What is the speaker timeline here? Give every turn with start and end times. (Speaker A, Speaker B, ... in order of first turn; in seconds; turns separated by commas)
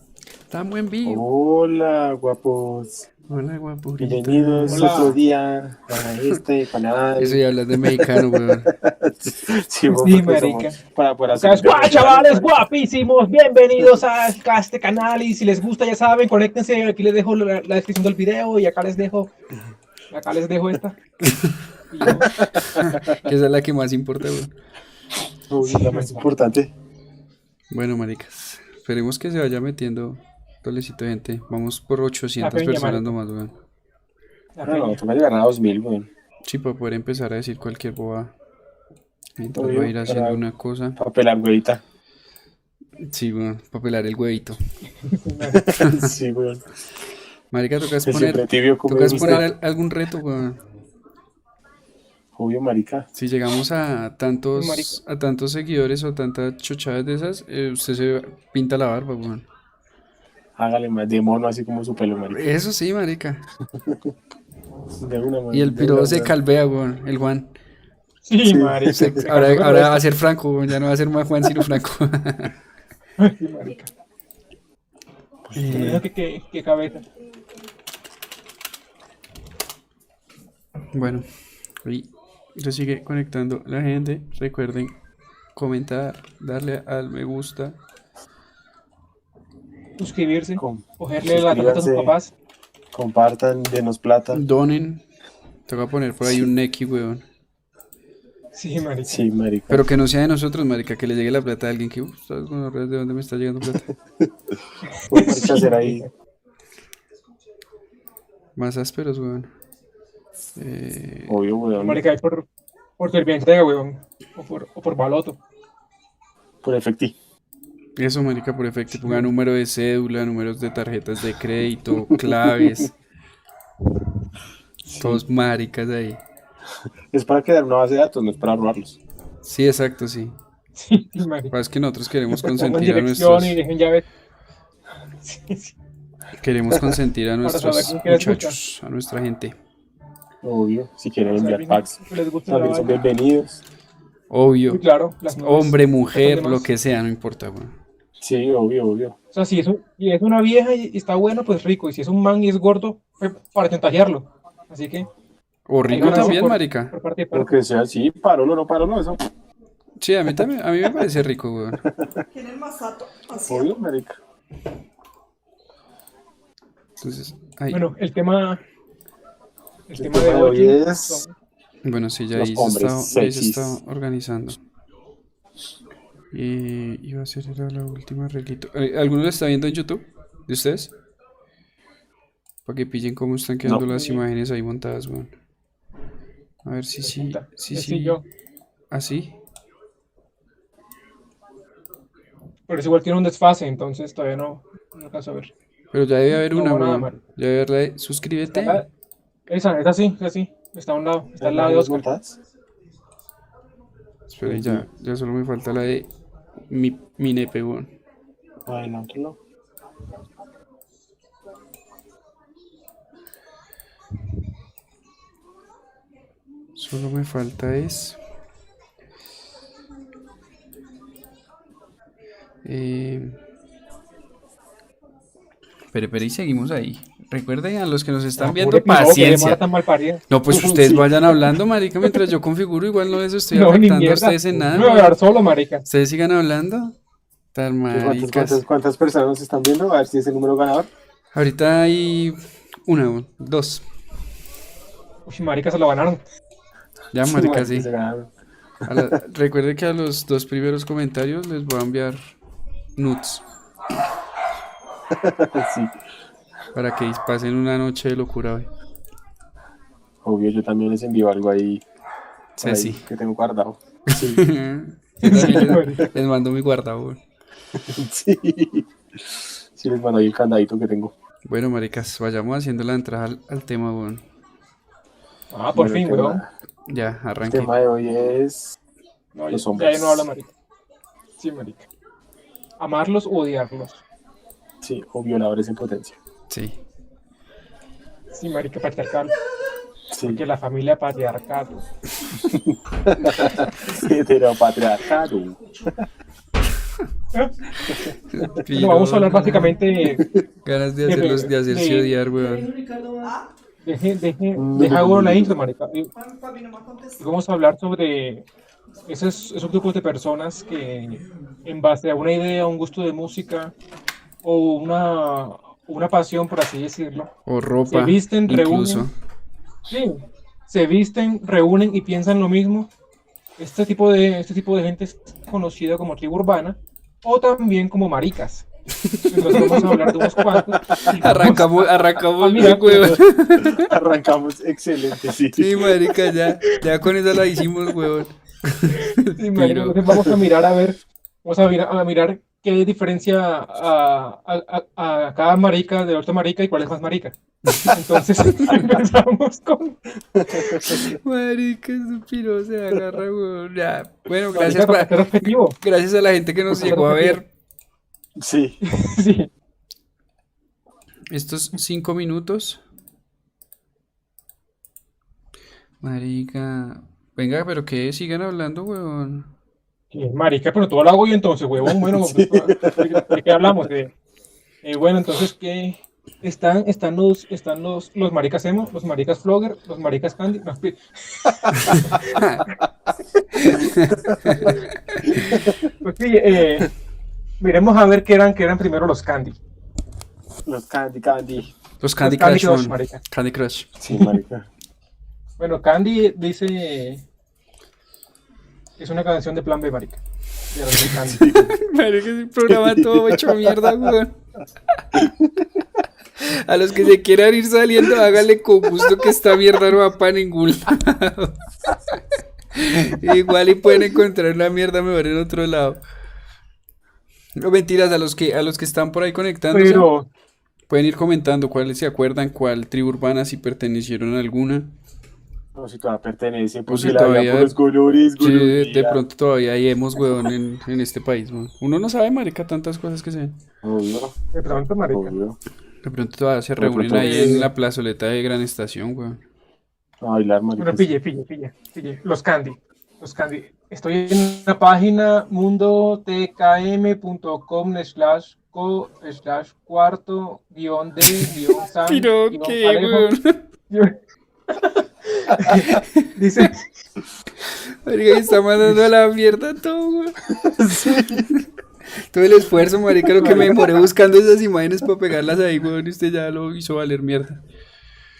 Speaker A: 0.5-1.2, Speaker B: 1.0-3.1, Speaker A: 3.3-5.0, Speaker B: 4.0-12.7, Speaker C: 4.7-5.2, Speaker A: 7.2-8.7, Speaker C: 9.9-10.8, Speaker C: 11.4-19.3, Speaker C: 20.1-21.0, Speaker A: 21.3-21.6, Speaker C: 21.9-22.3, Speaker B: 22.3-23.1, Speaker A: 22.6-24.5, Speaker B: 25.5-26.7, Speaker C: 25.7-26.2, Speaker A: 27.7-33.5, Speaker C: 32.4-33.1, Speaker C: 34.5-35.0, Speaker B: 34.6-36.1, Speaker A: 36.4-38.3, Speaker A: 39.4-41.0, Speaker B: 39.5-40.4, Speaker B: 41.0-41.8, Speaker A: 43.0-44.6, Speaker C: 45.1-45.6, Speaker B: 45.4-46.6, Speaker A: 45.8-46.0, Speaker A: 47.5-50.6, Speaker B: 48.0-49.5, Speaker B: 52.4-53.1, Speaker A: 53.1-59.4, Speaker C: 54.5-55.0, Speaker B: 60.5-62.5, Speaker A: 62.3-63.4, Speaker B: 63.7-64.1, Speaker B: 65.0-66.3, Speaker A: 65.5-67.5, Speaker C: 68.2-70.0, Speaker B: 68.5-69.2, Speaker A: 68.9-72.5, Speaker C: 73.2-73.9, Speaker B: 75.5-76.0, Speaker A: 75.5-76.0, Speaker C: 75.6-77.0, Speaker A: 80.9-81.3, Speaker A: 81.8-85.0, Speaker A: 85.5-87.8, Speaker C: 90.0-92.3, Speaker B: 90.6-92.1, Speaker B: 92.9-94.4, Speaker A: 94.3-95.0, Speaker A: 95.7-97.2, Speaker C: 98.5-99.2, Speaker B: 99.0-99.9, Speaker A: 99.7-103.9, Speaker B: 104.2-106.0, Speaker C: 105.1-106.1, Speaker A: 108.5-109.5, Speaker A: 110.5-111.4, Speaker B: 111.3-112.0, Speaker C: 111.8-112.4, Speaker C: 113.0-115.4, Speaker B: 116.6-117.2, Speaker A: 118.0-122.9, Speaker B: 122.0-122.9, Speaker B: 124.8-125.2, Speaker A: 125.0-126.2, Speaker B: 127.1-129.0, Speaker A: 129.4-130.3, Speaker C: 130.8-131.5, Speaker A: 131.5-133.6, Speaker C: 132.3-134.0, Speaker C: 135.2-135.7, Speaker A: 136.4-139.6, Speaker B: 136.7-137.0, Speaker C: 137.4-138.6, Speaker B: 140.4-143.6, Speaker C: 141.3-143.0, Speaker A: 144.3-144.8, Speaker C: 144.7-146.7, Speaker A: 145.4-147.7, Speaker B: 148.2-149.2, Speaker C: 149.3-155.1, Speaker A: 155.7-156.9, Speaker B: 155.9-156.5, Speaker C: 155.9-157.5, Speaker B: 157.3-159.2, Speaker A: 160.0-161.8, Speaker B: 161.7-162.2, Speaker D: 162.3-163.8, Speaker B: 163.4-164.2, Speaker A: 167.0-167.8, Speaker C: 167.7-168.6, Speaker C: 169.9-171.3, Speaker B: 169.9-171.2, Speaker A: 171.8-174.6, Speaker B: 172.3-173.8, Speaker A: 176.3-180.9, Speaker A: 182.7-185.3, Speaker B: 183.6-184.1, Speaker A: 186.6-188.2, Speaker C: 187.0-188.2, Speaker A: 188.9-189.3, Speaker C: 192.7-195.5, Speaker A: 195.9-198.8, Speaker C: 196.3-197.2, Speaker C: 198.5-198.8, Speaker C: 199.5-202.1, Speaker B: 201.4-202.3, Speaker A: 204.3-206.1, Speaker B: 204.4-204.8, Speaker A: 206.7-207.9, Speaker B: 208.7-209.4, Speaker A: 216.8-218.2, Speaker A: 222.6-223.4, Speaker A: 225.9-229.6, Speaker C: 228.4-230.2, Speaker A: 230.3-235.2, Speaker B: 230.5-231.3, Speaker C: 233.5-235.8, Speaker A: 235.9-236.9, Speaker A: 237.5-238.6, Speaker B: 237.9-240.9, Speaker A: 241.3-243.8, Speaker C: 245.3-246.2, Speaker A: 247.1-247.9, Speaker B: 247.2-248.3, Speaker B: 248.8-249.1, Speaker A: 248.8-252.2, Speaker A: 252.9-253.4, Speaker B: 255.1-256.0, Speaker A: 256.7-258.7, Speaker B: 260.2-261.8, Speaker A: 262.6-263.0, Speaker B: 262.6-264.4, Speaker A: 264.1-267.2, Speaker C: 265.2-266.0, Speaker B: 267.7-271.1, Speaker A: 271.4-274.2, Speaker C: 275.5-276.4, Speaker B: 275.7-276.5, Speaker A: 276.9-277.7, Speaker B: 277.5-278.8, Speaker C: 279.3-280.5, Speaker B: 279.5-280.3, Speaker C: 281.4-281.8, Speaker C: 282.8-284.0, Speaker B: 284.8-286.2, Speaker A: 286.5-286.8, Speaker C: 288.3-289.3, Speaker B: 290.1-290.4, Speaker C: 290.2-291.8, Speaker B: 292.3-296.0, Speaker C: 297.3-298.0, Speaker A: 298.3-299.8, Speaker C: 298.7-300.2, Speaker B: 300.0-300.4, Speaker A: 300.6-302.7, Speaker C: 301.0-302.1, Speaker D: 303.2-303.5, Speaker C: 303.8-306.1, Speaker B: 304.5-305.5, Speaker D: 306.1-307.2, Speaker C: 307.2-308.4, Speaker C: 309.1-313.7, Speaker C: 314.4-317.3, Speaker A: 317.4-319.1, Speaker C: 317.9-319.1, Speaker C: 319.9-322.9, Speaker C: 323.6-328.6, Speaker A: 328.9-330.0, Speaker C: 329.3-333.2, Speaker B: 330.0-331.2, Speaker A: 331.1-333.9, Speaker B: 332.9-335.9, Speaker A: 335.5-340.3, Speaker C: 338.9-350.0, Speaker B: 350.3-351.2, Speaker A: 350.8-357.4, Speaker C: 354.5-355.8, Speaker C: 356.7-357.4, Speaker B: 358.4-358.8, Speaker C: 358.8-359.5, Speaker A: 361.3-362.8, Speaker A: 366.0-369.5, Speaker C: 370.1-374.1, Speaker B: 371.9-373.6, Speaker C: 374.8-382.4, Speaker A: 381.8-382.6, Speaker A: 383.5-385.6, Speaker C: 385.5-386.9, Speaker B: 385.6-385.8, Speaker C: 387.6-389.6, Speaker B: 390.6-391.7, Speaker A: 392.0-394.3, Speaker C: 392.2-393.2, Speaker B: 394.0-394.7, Speaker C: 395.6-397.2, Speaker C: 399.0-400.2, Speaker C: 400.7-401.5, Speaker B: 401.1-401.7, Speaker A: 401.5-404.4, Speaker B: 402.7-404.1, Speaker A: 404.9-405.2, Speaker B: 405.1-405.7, Speaker A: 406.4-411.6, Speaker A: 412.7-416.0, Speaker A: 417.6-420.1, Speaker C: 419.7-420.3, Speaker A: 420.9-424.9, Speaker B: 425.7-429.2, Speaker A: 426.9-427.7, Speaker A: 428.4-433.6, Speaker B: 433.8-434.4, Speaker C: 434.5-435.3, Speaker B: 435.1-435.6, Speaker A: 436.0-439.4, Speaker B: 436.8-437.7, Speaker C: 437.2-437.7, Speaker B: 440.2-441.1, Speaker C: 440.8-453.3, Speaker A: 452.0-453.6, Speaker C: 453.9-454.1, Speaker C: 454.7-456.8, Speaker A: 455.9-456.6, Speaker A: 457.6-461.6, Speaker A: 462.3-467.6, Speaker C: 463.4-463.9